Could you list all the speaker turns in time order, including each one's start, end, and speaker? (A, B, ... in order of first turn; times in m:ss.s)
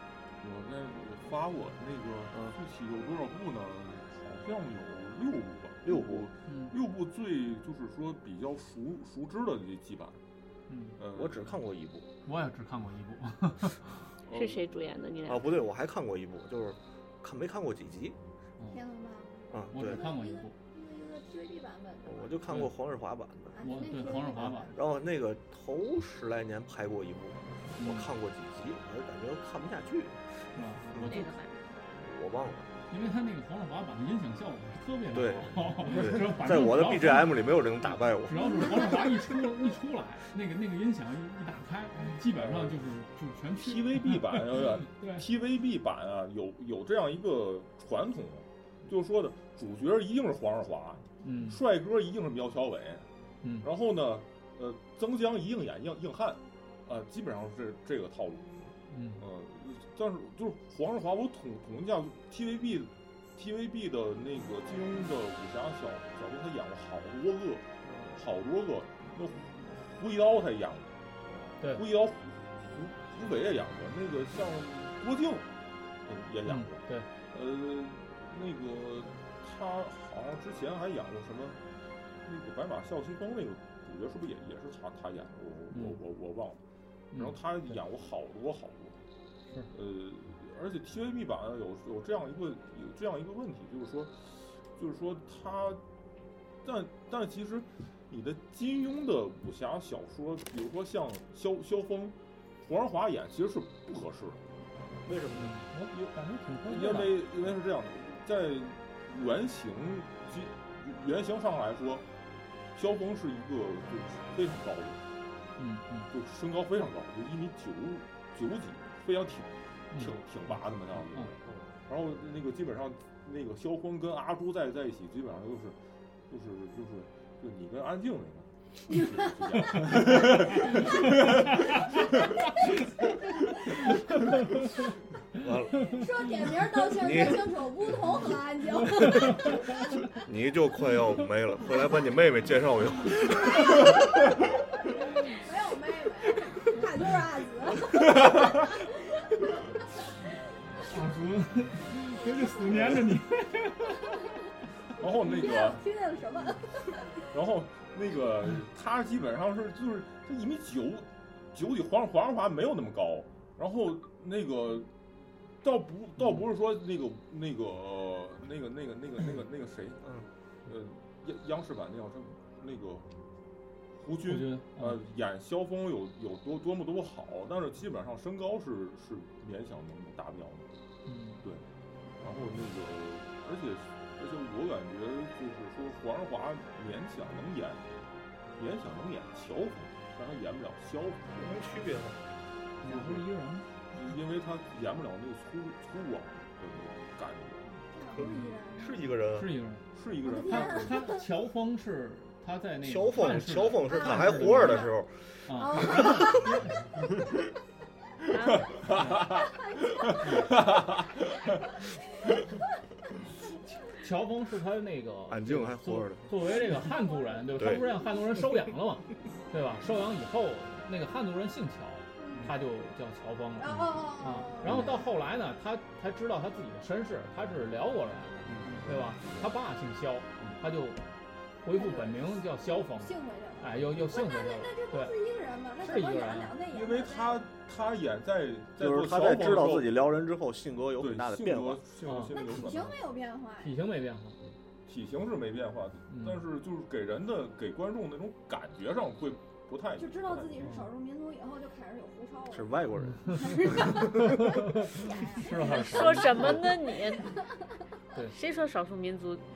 0:00.4-0:10.2 A
0:05.8-0:06.3 B
0:06.4-0:06.7 C
0:10.7-0:11.0 C
0:11.0-0:11.5 A
0:11.1-0:12.1 B
0:12.2-0:13.8 C
0:14.2-0:14.7 A
0:14.3-0:15.4 D
0:15.2-0:18.2 B
0:18.7-0:22.4 E
0:19.5-0:20.0 B
0:19.7-0:20.5 C
0:22.0-0:31.2 B
0:22.5-0:22.7 C
0:23.5-0:24.7 E
0:23.6-0:24.7 C
0:27.8-0:28.1 C
0:30.5-0:31.3 C
0:31.0-0:31.6 D
0:31.9-0:32.7 B
0:32.9-0:45.2 C
0:35.1-0:39.0 B
0:38.4-0:39.0 E
0:43.5-0:53.1 A
0:51.2-0:51.6 C
0:53.4-0:53.7 C
0:53.6-0:58.6 A
0:58.9-0:59.2 C
0:59.2-1:10.9 A
1:11.6-1:15.5 A
1:16.0-1:21.6 A
1:16.4-1:17.1 C
1:22.2-1:26.6 A
1:25.7-1:26.0 C
1:27.2-1:29.0 A
1:29.7-1:35.8 A
1:36.6-1:44.4 A
1:45.0-1:45.6 B
1:45.3-1:47.2 C
1:46.6-1:52.1 A
1:52.7-1:55.0 A
1:55.6-1:56.1 C
1:56.1-2:05.8 A
1:59.9-2:00.2 C
2:06.3-2:12.2 A
2:10.5-2:10.8 C
2:11.4-2:11.7 C
2:15.4-2:15.9 B
2:15.8-2:19.8 E
2:16.9-2:17.7 B
2:20.1-2:23.9 B
2:24.9-2:28.8 E
2:30.8-2:34.3 C
2:35.0-2:35.8 A
2:35.2-2:37.2 E
2:37.3-2:44.9 A
2:45.6-2:53.1 A
2:54.0-3:00.7 A
2:54.2-2:55.0 C
3:01.0-3:01.4 C
3:02.2-3:07.8 A
3:08.6-3:11.6 A
3:11.4-3:12.2 B
3:12.8-3:13.7 C
3:12.8-3:13.2 A
3:13.9-3:17.7 A
3:17.9-3:19.1 E
3:18.1-3:19.5 B
3:19.3-3:24.9 C
3:19.9-3:21.1 A
3:20.2-3:21.2 E
3:22.8-3:26.0 B
3:23.8-3:24.9 E
3:25.4-3:26.8 C
3:25.5-3:26.5 E
3:28.3-3:28.7 D
3:28.5-3:31.5 A
3:28.9-3:29.4 C
3:29.7-3:30.1 E
3:30.2-3:30.5 C
3:33.6-3:51.0 C
3:35.3-3:36.3 B
3:36.5-3:37.9 E
3:37.6-3:37.8 B
3:42.2-3:42.5 E
3:43.6-3:44.9 E
3:44.6-3:44.9 B
3:48.4-3:49.2 B
3:51.6-3:55.1 C
3:51.7-3:52.4 E
3:53.0-3:57.4 E
3:55.8-3:56.6 C
3:56.7-4:00.0 A
3:58.8-4:01.8 B
4:01.0-4:03.0 A
4:02.0-4:02.3 C
4:02.3-4:03.7 E
4:03.6-4:04.4 C
4:04.9-4:10.5 A
4:06.1-4:06.4 C
4:10.0-4:12.8 E
4:10.6-4:10.9 C
4:12.5-4:14.5 B
4:13.0-4:16.7 C
4:13.3-4:16.5 E
4:15.6-4:17.3 D
4:18.3-4:19.4 D